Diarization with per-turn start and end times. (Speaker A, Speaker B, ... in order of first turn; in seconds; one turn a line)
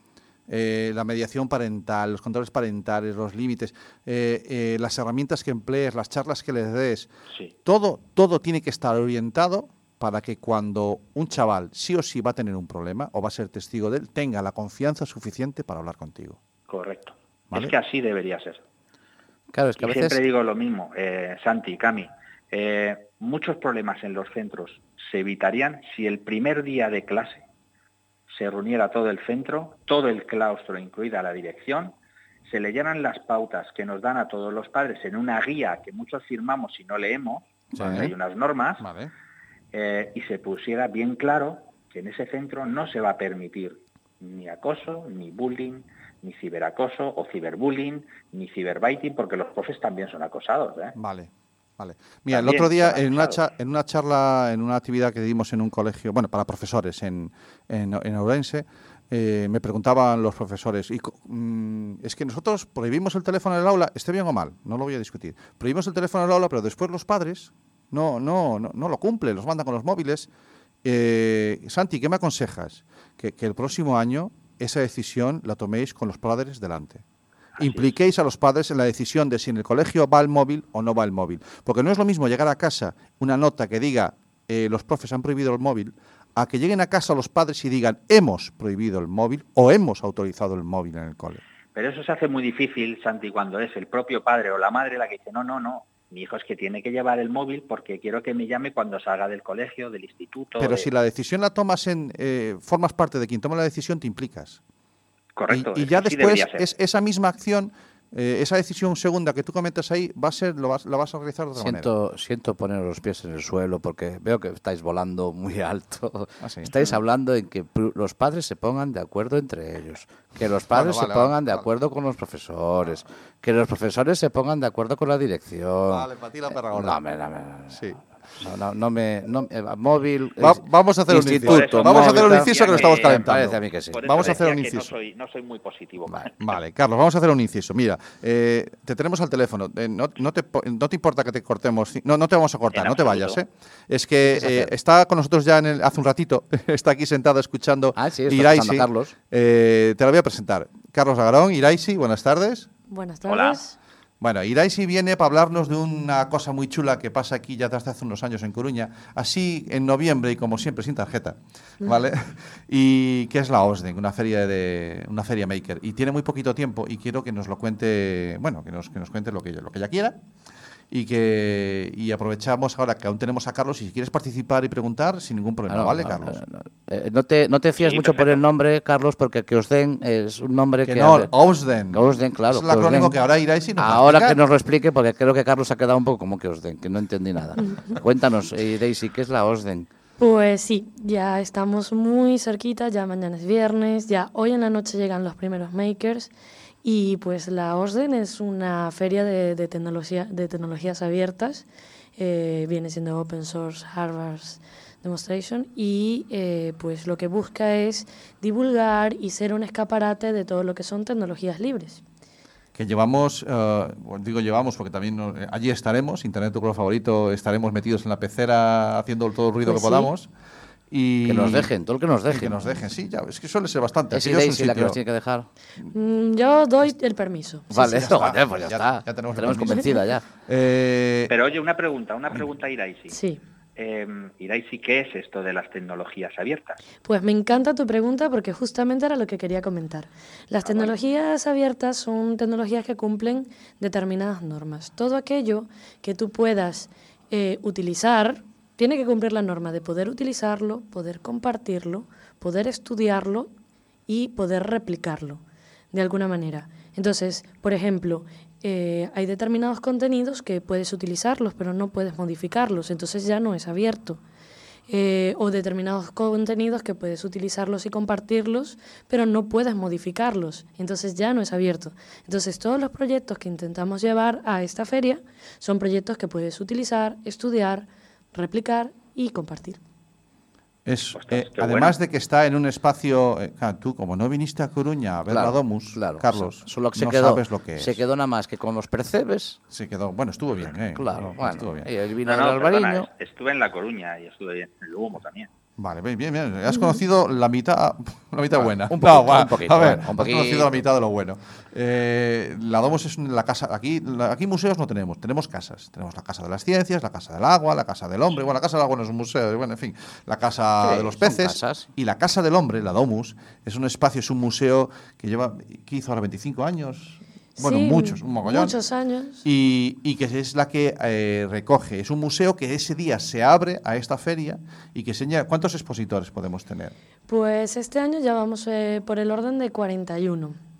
Speaker A: 0.5-7.1
Speaker A: 7.7-16.4
Speaker B: 16.7-18.6
Speaker C: 19.5-20.2
Speaker B: 19.8-27.4
Speaker B: 28.3-38.9
Speaker A: 37.8-38.1
Speaker A: 38.8-39.1
Speaker B: 39.7-51.0
Speaker A: 51.0-70.3
Speaker B: 52.3-53.4
Speaker A: 70.8-77.0
Speaker B: 77.6-77.9
Speaker A: 77.6-91.4
Speaker B: 91.8-100.9
Speaker A: 100.6-104.6
Speaker B: 105.4-106.7
Speaker A: 105.5-111.9
Speaker C: 111.6-127.8
Speaker A: 116.4-116.8
Speaker A: 120.7-121.7
Speaker A: 125.9-127.0
Speaker A: 127.7-128.0
Speaker C: 128.4-134.4
Speaker A: 130.4-134.9
Speaker B: 131.4-133.4
Speaker B: 133.9-136.6
Speaker A: 136.4-152.7
Speaker B: 142.7-143.4
Speaker C: 144.3-144.7
Speaker C: 147.9-149.1
Speaker D: 152.9-153.8
Speaker B: 153.3-153.6
Speaker A: 154.2-170.2
Speaker A: 170.9-176.4
Speaker C: 175.7-181.3
Speaker B: 177.8-178.4
Speaker A: 180.9-184.4
Speaker C: 181.9-183.2
Speaker C: 183.8-189.9
Speaker D: 190.2-196.3
Speaker D: 196.8-201.7
Speaker D: 202.2-212.0
Speaker A: 212.8-220.3
Speaker D: 219.7-220.1
Speaker A: 220.9-221.7
Speaker C: 221.3-222.6
Speaker A: 222.3-225.0
Speaker C: 224.1-225.5
Speaker D: 225.9-227.7
Speaker C: 227.7-230.2
Speaker A: 227.7-231.3
Speaker B: 231.3-233.2
Speaker D: 233.1-233.4
Speaker B: 233.8-236.8
Speaker D: 237.0-253.5
Speaker B: 240.6-240.9
Speaker D: 254.1-255.4
Speaker D: 255.9-264.2
Speaker D: 264.9-279.8
Speaker A: 280.9-288.0
Speaker B: 281.2-282.0
Speaker C: 285.3-289.6
Speaker A: 289.7-291.9
Speaker C: 290.9-293.1
Speaker B: 292.2-295.5
Speaker A: 295.8-318.8
Speaker C: 298.5-300.7
Speaker C: 310.8-311.9
Speaker D: 317.6-319.4
Speaker A: 319.4-326.9
Speaker D: 327.3-330.6